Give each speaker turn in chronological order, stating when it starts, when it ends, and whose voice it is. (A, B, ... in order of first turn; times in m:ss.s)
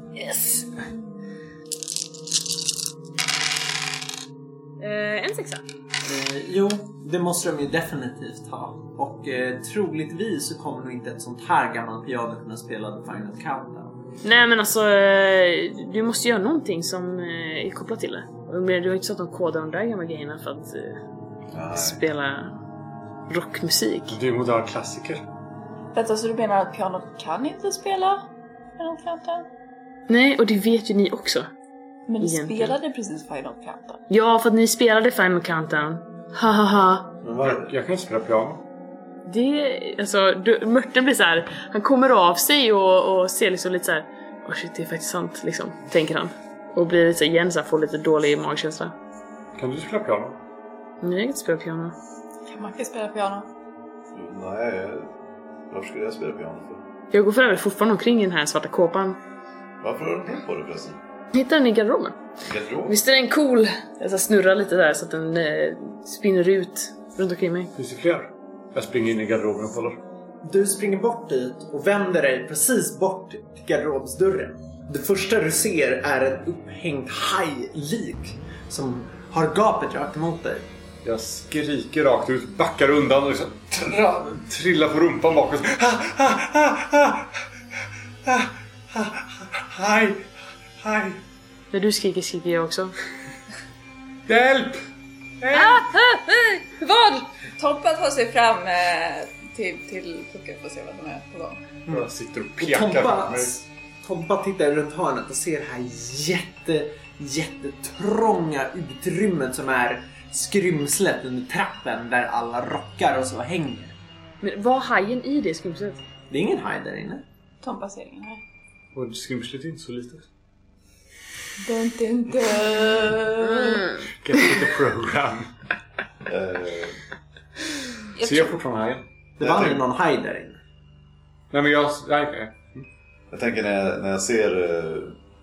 0:00.2-0:00.7 A
0:04.8-0:05.6 A
0:06.0-0:14.0 B
0:14.2-0:21.0 A
0:21.5-0:22.0 C
0:21.7-0:22.5 A
0:23.3-0:24.2 A
0:24.1-0:25.2 D
0:25.9-0:29.5 E
0:30.1-0:31.5 A
0:32.1-0:34.0 E
0:32.2-0:32.8 A
0:34.1-0:37.1 A
0:37.2-0:37.7 C
0:37.4-0:38.6 D
0:39.2-0:48.9 A
0:49.6-0:50.4 D
0:51.0-0:51.9 A
0:52.5-0:53.5 E
0:54.1-0:55.1 C
0:55.7-0:56.8 C
0:57.1-0:59.2 A
0:59.8-1:01.0 C
1:01.3-1:02.2 A
1:02.4-1:03.0 C
1:02.8-1:07.7 A
1:07.7-1:10.0 D
1:10.4-1:20.7 B
1:21.0-1:27.3 D
1:28.2-1:30.3 D
1:30.8-1:31.2 D
1:31.7-1:32.9 A
1:34.3-1:34.8 D
1:35.4-1:35.8 D
1:35.5-1:37.3 A
1:37.5-1:41.7 E
1:41.9-1:54.0 B
1:41.9-1:43.5 D
1:54.4-1:56.0 A
1:56.3-1:57.2 B
1:57.6-1:58.4 E
1:58.9-2:00.3 D
2:01.6-2:03.9 E
2:04.0-2:05.5 D
2:06.2-2:07.0 C
2:08.2-2:08.6 E
2:08.2-2:09.0 D
2:09.4-2:10.6 B
2:09.4-2:09.8 C
2:11.5-2:12.6 D
2:13.3-2:15.2 C